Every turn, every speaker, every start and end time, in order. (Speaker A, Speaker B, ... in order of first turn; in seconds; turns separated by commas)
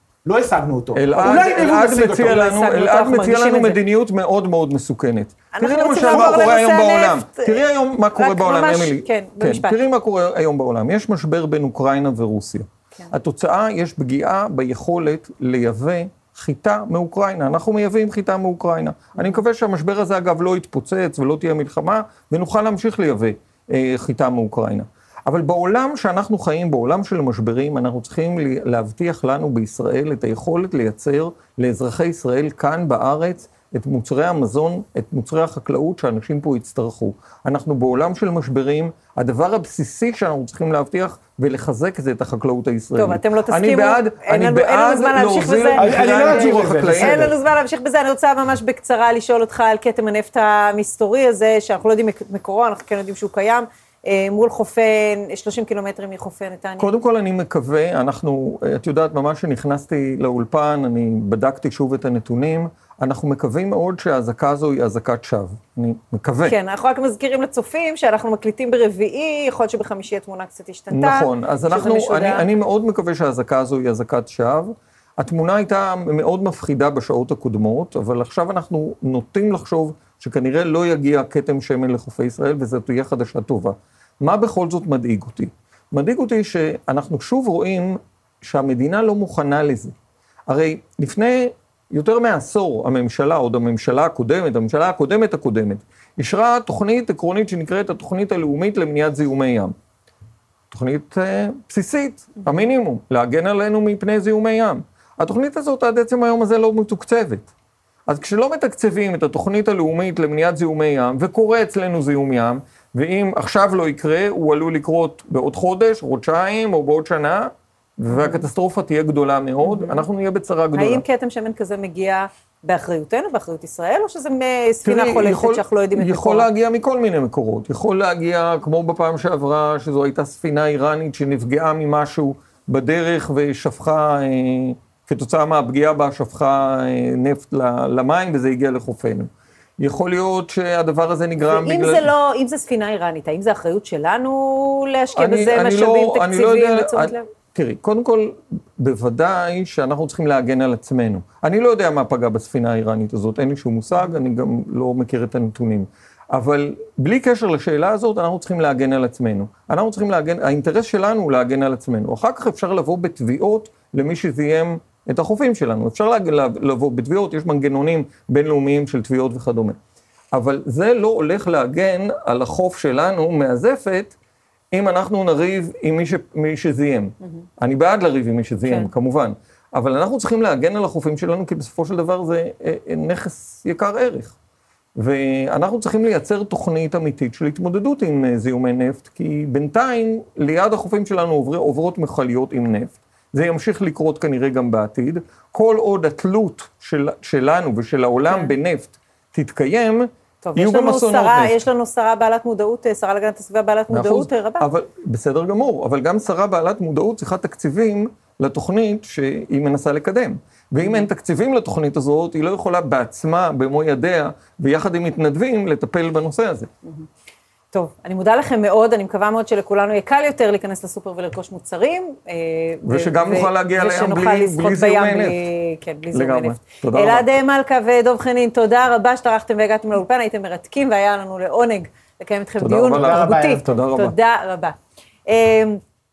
Speaker A: 0.2-2.5, Speaker B: 0.9-47.4, Speaker C: 1.2-3.8, Speaker C: 5.5-7.6, Speaker C: 8.2-9.8, Speaker C: 19.1-19.4, Speaker C: 43.0-56.9, Speaker A: 45.8-47.3, Speaker B: 56.8-66.6, Speaker C: 66.5-72.5, Speaker B: 70.9-89.9, Speaker B: 90.5-99.7, Speaker B: 100.7-107.5, Speaker B: 108.1-121.0, Speaker C: 118.1-118.5, Speaker C: 119.6-120.0, Speaker C: 120.7-126.5, Speaker B: 124.8-142.1, Speaker C: 141.4-147.3, Speaker B: 145.2-169.8, Speaker B: 170.3-174.2, Speaker B: 174.7-184.4, Speaker C: 178.7-178.9, Speaker B: 184.9-201.6, Speaker C: 200.4-204.7, Speaker B: 203.9-216.7, Speaker C: 210.8-211.1, Speaker C: 217.7-235.8, Speaker B: 222.8-225.4, Speaker B: 226.1-227.3, Speaker B: 232.6-234.2, Speaker A: 232.9-233.6